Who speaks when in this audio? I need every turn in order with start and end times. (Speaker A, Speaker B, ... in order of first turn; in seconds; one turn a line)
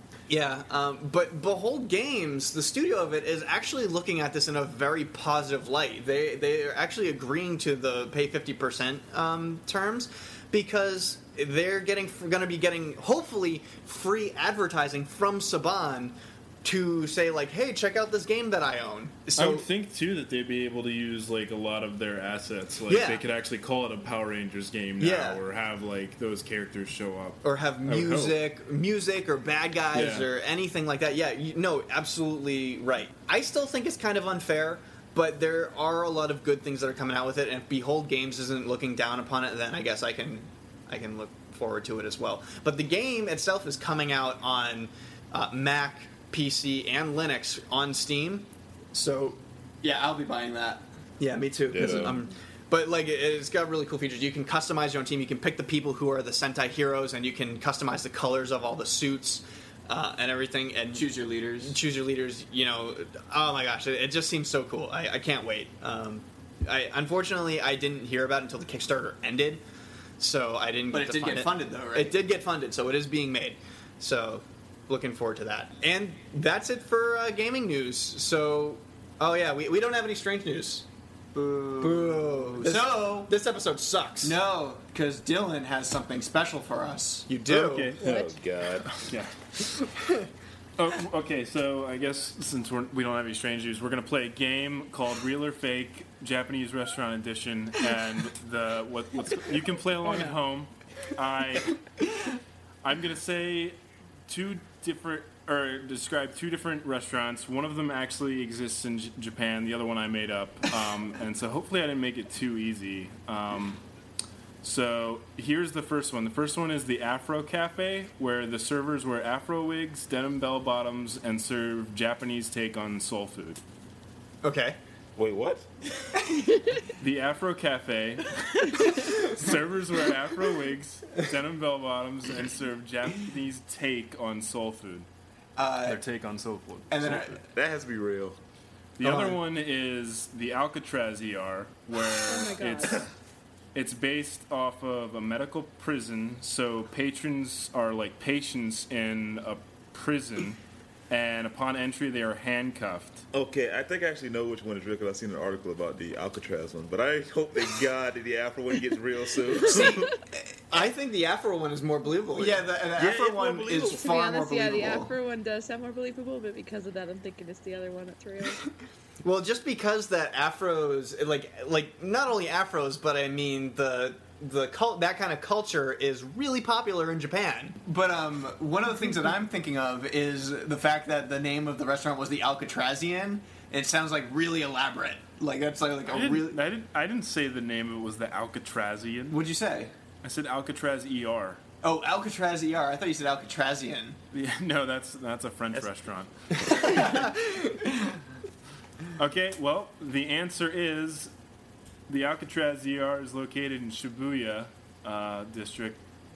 Speaker A: 0.3-19.6
Speaker B: 19.4-28.4
Speaker A: 22.9-23.2
Speaker A: 25.0-25.4
Speaker A: 27.4-48.5
Speaker B: 29.9-30.3
Speaker C: 48.9-50.8
Speaker A: 51.2-61.1
Speaker D: 51.7-52.3
Speaker C: 60.9-61.8
Speaker A: 61.6-69.6
Speaker A: 70.2-80.8
Speaker C: 70.9-72.2
Speaker C: 81.3-83.3
Speaker A: 81.8-84.4
Speaker C: 84.2-87.3
Speaker A: 87.3-87.9
Speaker B: 87.5-88.3
Speaker D: 88.0-89.1
Speaker B: 88.8-89.3
Speaker B: 90.8-101.8
Speaker B: 102.8-103.8
Speaker B: 104.3-113.8
Speaker B: 114.6-123.6
Speaker A: 124.4-124.8
Speaker D: 125.2-126.2
Speaker B: 127.0-128.4
Speaker B: 129.1-135.1
Speaker C: 135.6-136.0
Speaker B: 135.8-137.4
Speaker C: 136.9-137.4
Speaker D: 137.4-138.4
Speaker B: 139.0-143.0
Speaker E: 142.3-143.0
Speaker B: 143.7-153.2
Speaker D: 153.3-160.1
Speaker A: 159.7-160.0
Speaker A: 160.7-162.6
Speaker C: 162.3-165.1
Speaker D: 162.9-164.1
Speaker E: 163.8-168.6
Speaker A: 169.2-177.8
Speaker C: 177.8-186.6
Speaker B: 186.1-189.4
Speaker C: 189.3-189.9
Speaker B: 190.2-191.6
Speaker C: 191.8-194.2
Speaker B: 194.3-197.0
Speaker A: 196.8-197.7
Speaker B: 199.2-201.3
Speaker B: 202.1-206.0